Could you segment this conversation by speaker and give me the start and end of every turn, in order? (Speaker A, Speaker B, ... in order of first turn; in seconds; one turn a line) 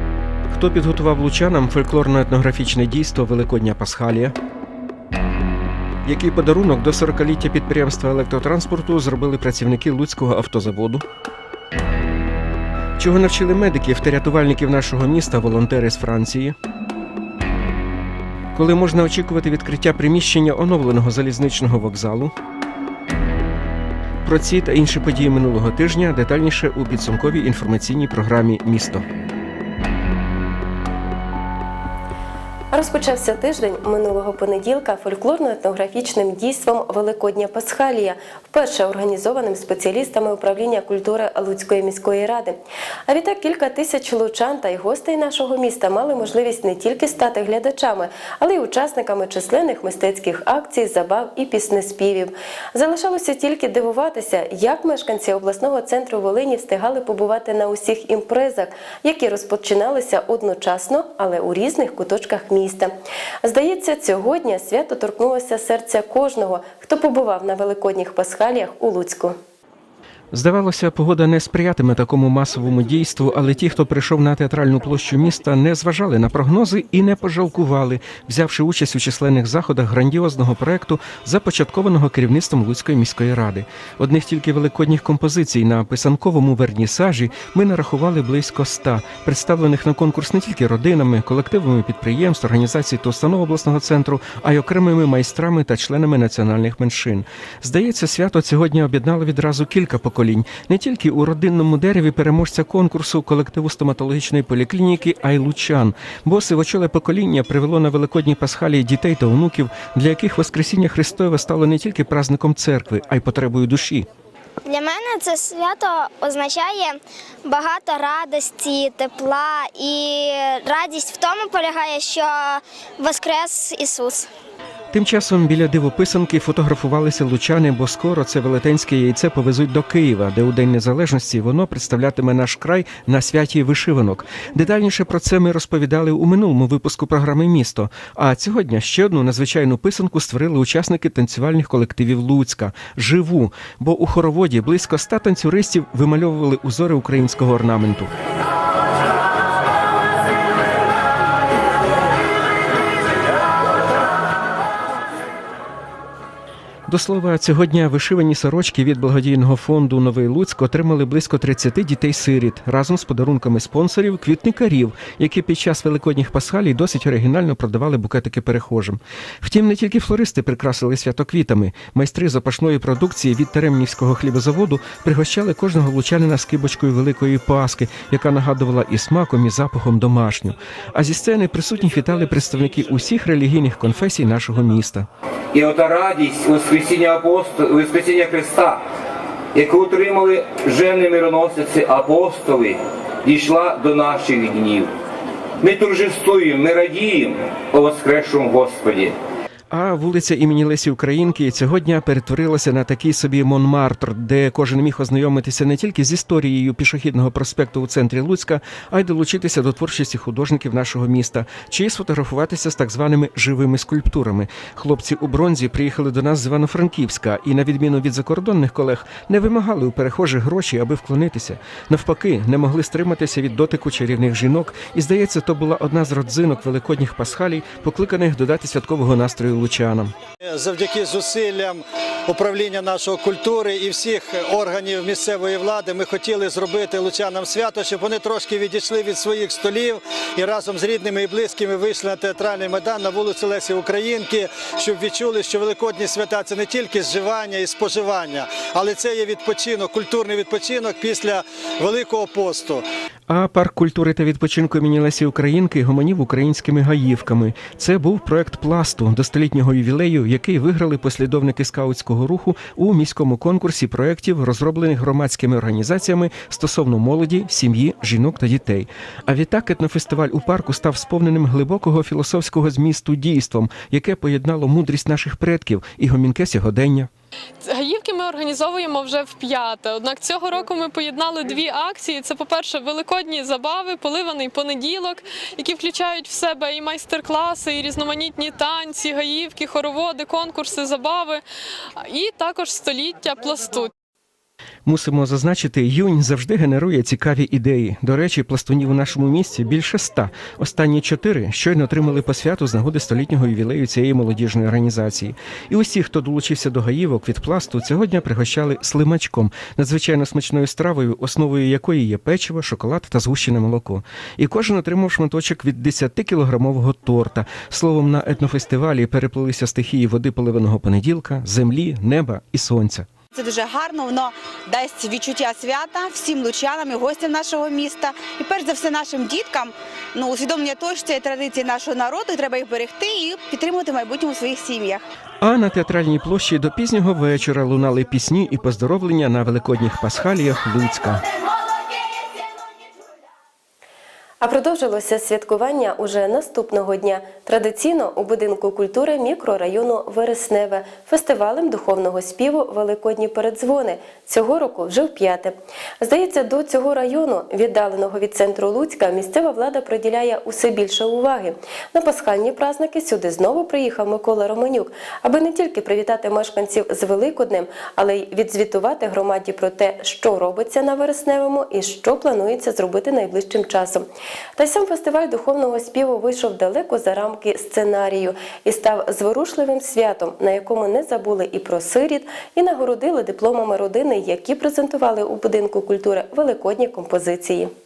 Speaker A: 0.5-4.3
Speaker A: 6.0-11.0
Speaker A: 13.0-16.6
Speaker A: 18.5-22.3
Speaker A: 24.2-29.1
Speaker B: 32.7-62.9
Speaker B: 63.4-69.4
Speaker A: 70.3-114.1
Speaker C: 114.7-124.3
Speaker A: 124.9-148.1
Speaker A: 156.9-185.1
Speaker D: 185.5-188.8
Speaker D: 189.5-194.9
Speaker D: 195.6-199.2
Speaker A: 199.7-230.1
Speaker E: 230.4-252.8
Speaker A: 253.3-277.1
Speaker F: 277.6-291.4
Speaker F: 292.0-293.9
Speaker A: 294.9-323.1
Speaker G: 323.3-335.0
Speaker A: 335.4-341.2
Speaker B: 344.4-387.7